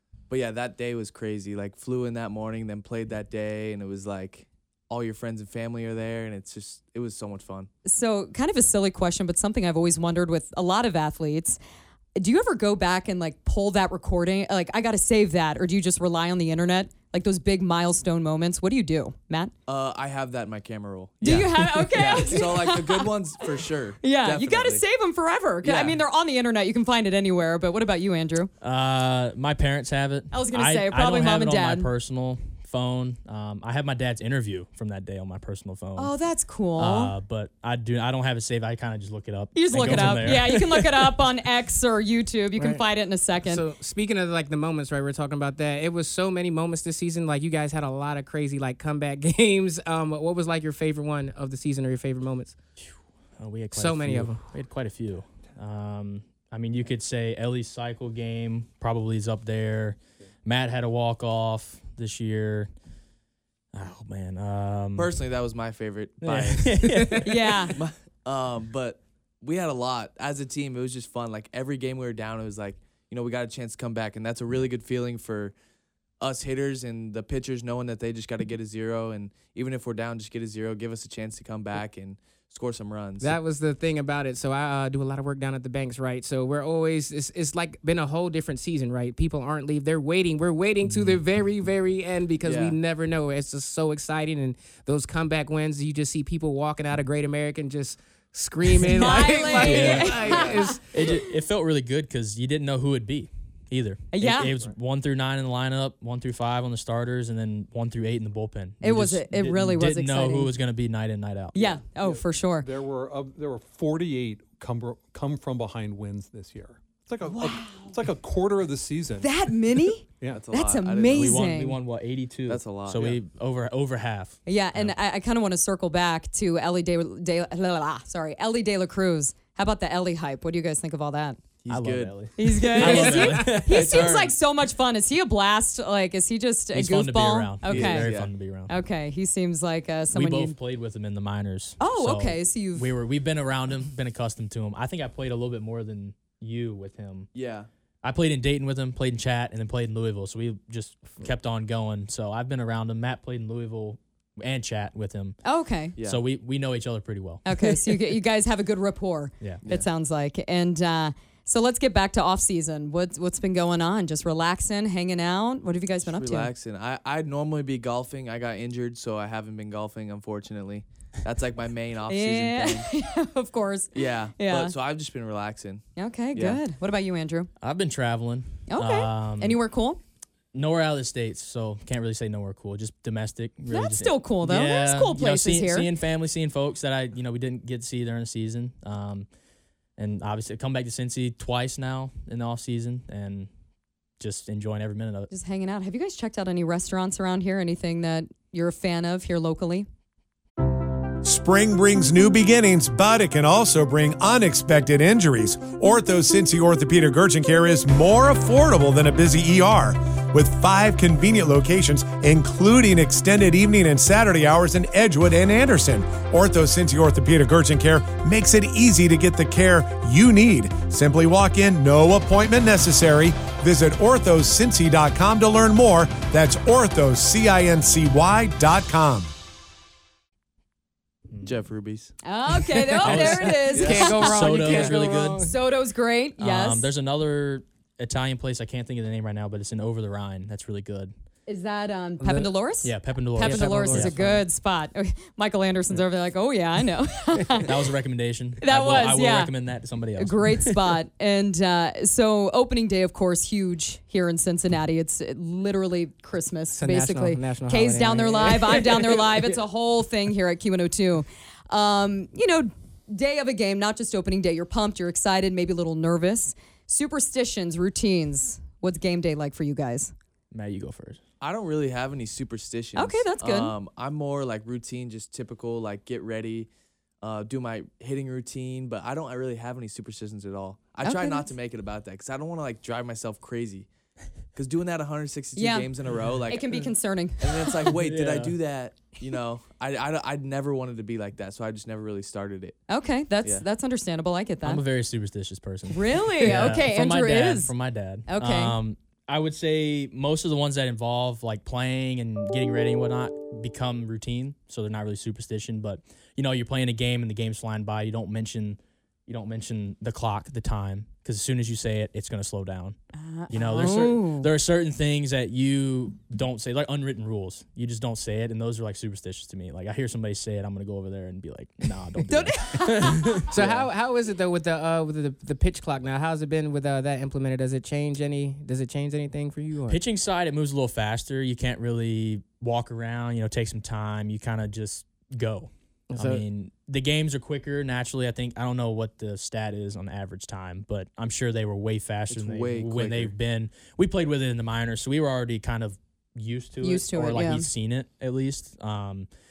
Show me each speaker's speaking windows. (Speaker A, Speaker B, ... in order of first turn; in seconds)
Speaker A: 0.3-1.2, 4.3-7.7, 22.6-23.2, 42.6-42.8, 43.4-52.6, 53.8-54.5, 65.0-65.4, 66.2-66.5, 68.9-70.0, 71.3-71.5, 72.2-73.3, 74.5-75.5, 76.2-77.3, 78.1-100.8, 132.8-134.0, 233.1-235.5, 242.2-242.5, 243.4-244.4, 256.7-258.9, 273.5-274.2, 280.9-281.8, 285.4-286.1, 288.6-289.6, 323.5-330.0, 336.1-336.4
Speaker B: 0.4-4.3, 5.1-6.3, 19.8-24.8, 25.7-25.9, 65.2-66.6, 67.8-68.8, 69.7-72.7, 73.3-75.4, 76.3-79.2, 80.0-81.8, 82.7-83.3, 92.4-92.8, 120.4-121.3, 122.5-123.2, 131.6-132.2, 134.0-134.3, 137.7-138.3, 166.1-172.8, 174.0-175.8, 176.3-176.6, 231.4-232.1, 271.4-276.6, 277.3-283.8, 284.6-286.8, 287.5-292.7, 342.3-343.3
Speaker C: 7.8-11.6, 12.2-19.5, 21.2-23.1, 24.0-28.5, 30.3-31.9, 36.0-37.1, 39.5-43.6, 67.2-67.8, 98.8-100.8, 104.1-104.5, 108.8-110.5, 111.5-112.7, 117.3-117.9, 119.2-121.8, 124.5-131.4, 132.4-138.1, 138.7-140.6, 141.8-142.9, 155.4-156.0, 157.4-166.5, 172.1-174.7, 175.9-177.5, 178.7-180.0, 183.7-185.9, 195.3-199.9, 232.2-236.9, 241.5-247.7, 248.6-249.5, 250.2-270.1, 272.9-273.8, 281.0-281.5, 285.6-285.9, 286.5-287.9, 292.9-294.8, 295.9-297.7, 298.3-298.8, 313.2-314.5, 322.3-323.3, 346.8-347.7
Speaker D: 28.6-36.1, 36.8-41.1, 52.8-62.7, 63.7-65.1, 66.2-67.7, 90.9-91.2, 99.5-111.8, 121.1-124.9, 131.7-134.2, 136.7-138.7, 140.1-147.3, 148.0-155.4, 156.0-157.7, 177.6-179.6, 180.5-189.3, 190.0-193.5, 194.2-195.3, 231.3-231.6, 233.0-235.5, 236.4-241.1, 242.8-244.3, 247.6-250.8, 270.5-271.2, 287.9-288.5, 294.6-312.9, 313.5-323.9, 329.9-349.3
Speaker E: 112.0-119.3, 120.2-120.5
Speaker F: 201.2-229.3